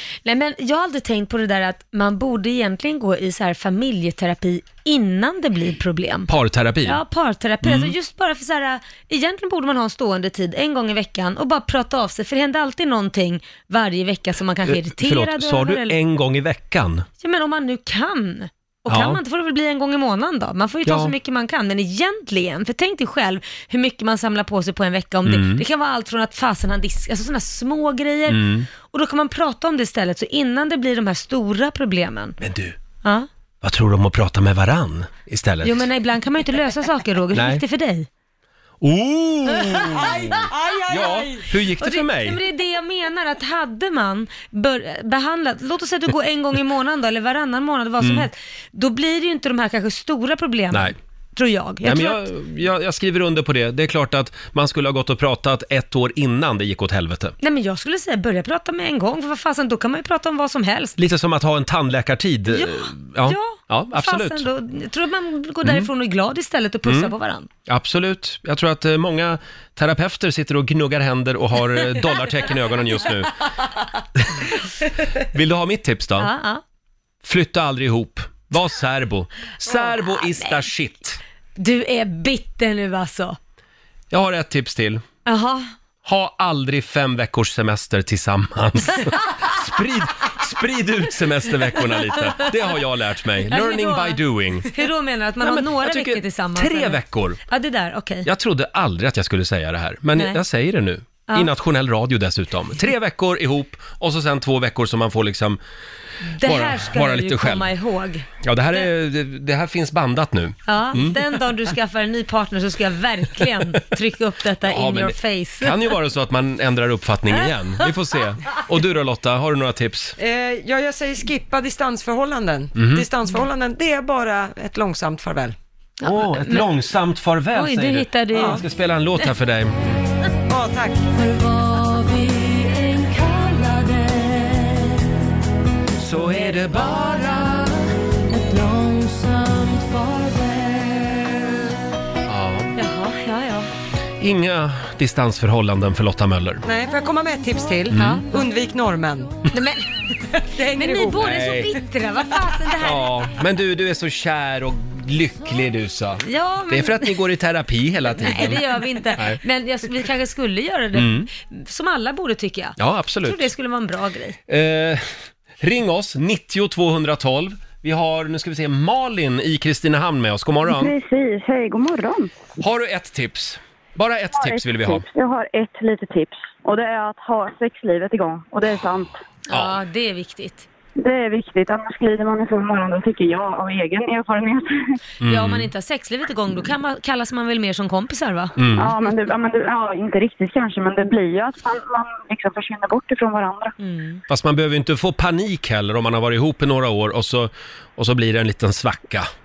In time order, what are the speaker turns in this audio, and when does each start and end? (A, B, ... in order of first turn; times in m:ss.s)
0:00.2-0:06.3 A
0:06.3-0:07.0 B
0:06.8-0:16.0 A
0:07.6-0:07.9 B
0:14.6-0:17.0 B
0:17.2-0:32.4 A
0:18.9-0:19.2 B
0:20.8-0:21.1 B
0:25.2-0:25.6 B
0:28.3-0:28.7 B
0:32.4-0:32.7 B
0:33.6-0:35.9 B
0:35.6-0:38.1 A
0:37.3-0:37.6 B
0:38.8-0:42.4 B
0:39.9-0:41.4 C
0:41.8-0:52.3 A
0:48.0-0:48.3 B
0:51.8-0:57.4 B
0:57.4-1:01.0 A
1:01.0-1:04.5 B
1:02.5-1:07.5 A
1:05.6-1:05.9 B
1:06.8-1:07.1 B
1:07.7-1:13.3 B
1:15.2-1:16.3 B
1:16.2-1:16.6 A
1:17.2-1:21.2 B
1:20.0-1:20.6 A
1:21.6-1:23.4 A
1:24.1-1:25.0 B
1:25.2-1:25.7 A
1:26.0-1:34.7 B
1:33.4-1:38.2 A
1:35.4-1:37.4 B
1:38.2-1:45.6 B
1:40.1-1:40.4 A
1:46.3-1:48.3 A
1:46.4-1:47.7 B
1:48.4-1:51.2 B
1:50.7-1:55.8 A
1:54.6-2:00.2 B
2:00.2-2:05.5 C
2:02.7-2:03.0 B
2:06.0-2:06.7 A
2:06.0-2:10.0 B
2:07.5-2:08.6 A
2:08.3-2:08.6 C
2:10.5-2:11.1 C
2:11.1-2:15.2 D
2:16.0-2:17.5 B
2:16.7-2:21.4 D
2:22.3-2:22.7 B
2:22.8-2:23.7 A
2:24.2-2:26.6 B
2:26.6-2:29.3 C
2:27.9-2:28.2 B
2:27.9-2:28.2 A
2:29.5-2:29.9 A
2:30.5-2:31.3 C
2:30.7-2:33.0 A
2:31.2-2:31.7 B
2:32.8-2:39.4 B
2:36.2-2:37.2 A
2:38.1-2:44.4 A
2:40.9-2:41.3 B
2:42.8-2:43.5 B
2:44.5-2:45.1 B
2:45.6-2:50.9 B
2:50.6-2:52.3 E
2:52.6-2:55.0 B
2:54.4-2:59.2 E
2:59.5-3:00.7 A
2:59.5-2:59.8 B
3:01.0-3:04.8 E
3:05.2-3:05.7 B
3:05.2-3:08.6 A
3:08.6-3:09.0 B
3:08.8-3:13.7 E
3:13.8-3:14.2 A
3:14.3-3:19.3 B